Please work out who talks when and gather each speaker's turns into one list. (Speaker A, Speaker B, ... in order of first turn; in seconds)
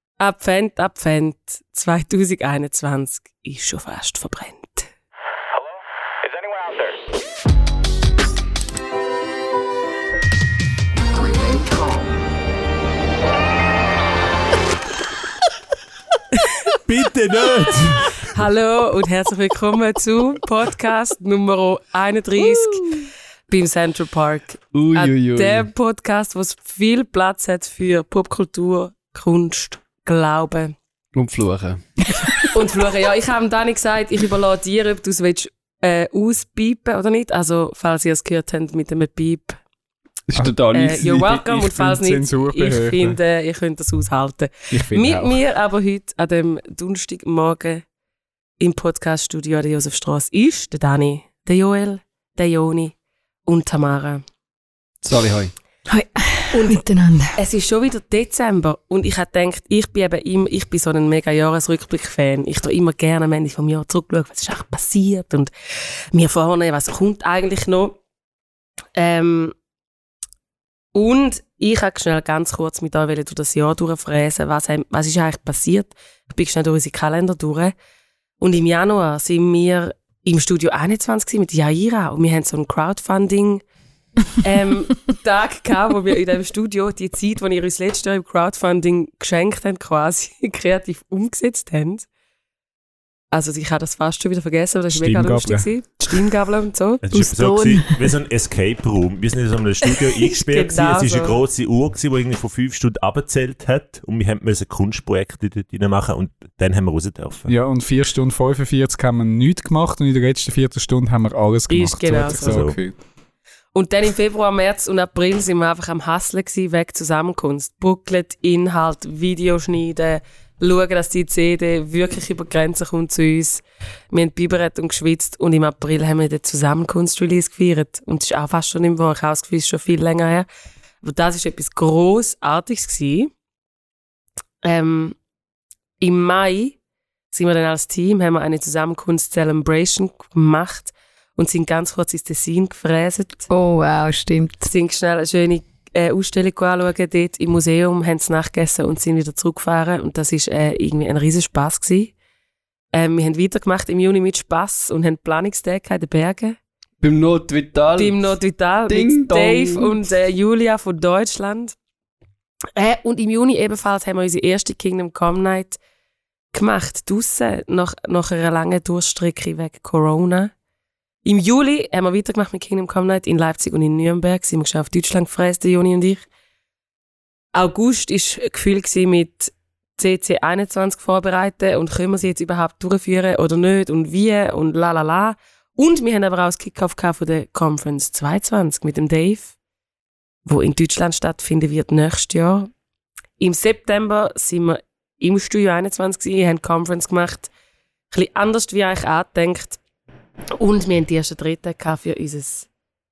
Speaker A: 0.2-4.9, 18.2-22.9, 23.5-30.8, 32.5-39.6, 40.7-47.8, 48.6-52.9, 53.5-54.2, 56.5-56.8, 57.4-65.5, 66.1-68.0, 69.0-69.5, 70.9-77.7, 78.4-83.6, 84.4-92.1, 93.3-97.0, 100.4-101.4, 111.7-112.8, 113.7-130.5, 131.0-133.3, 134.6-135.2, 136.0-136.8, 137.3-143.5, 144.7-152.1, 152.9-156.6, 157.9-161.7, 162.8-165.8, 166.5-170.5, 171.2-176.2, 177.5-189.5, 190.4-192.7, 193.4-197.5, 198.1-199.8, 200.6-202.7
Speaker B: 16.9-18.2, 97.0-107.5, 112.3-112.8
Speaker C: 24.7-25.7, 31.1-32.3, 40.3-41.2, 55.0-55.5, 157.0-158.2, 158.9-159.9
Speaker D: 40.4-43.2, 44.7-45.4, 94.9-96.2, 107.5-113.0
Speaker E: 55.9-57.4, 97.1-98.1, 143.5-144.7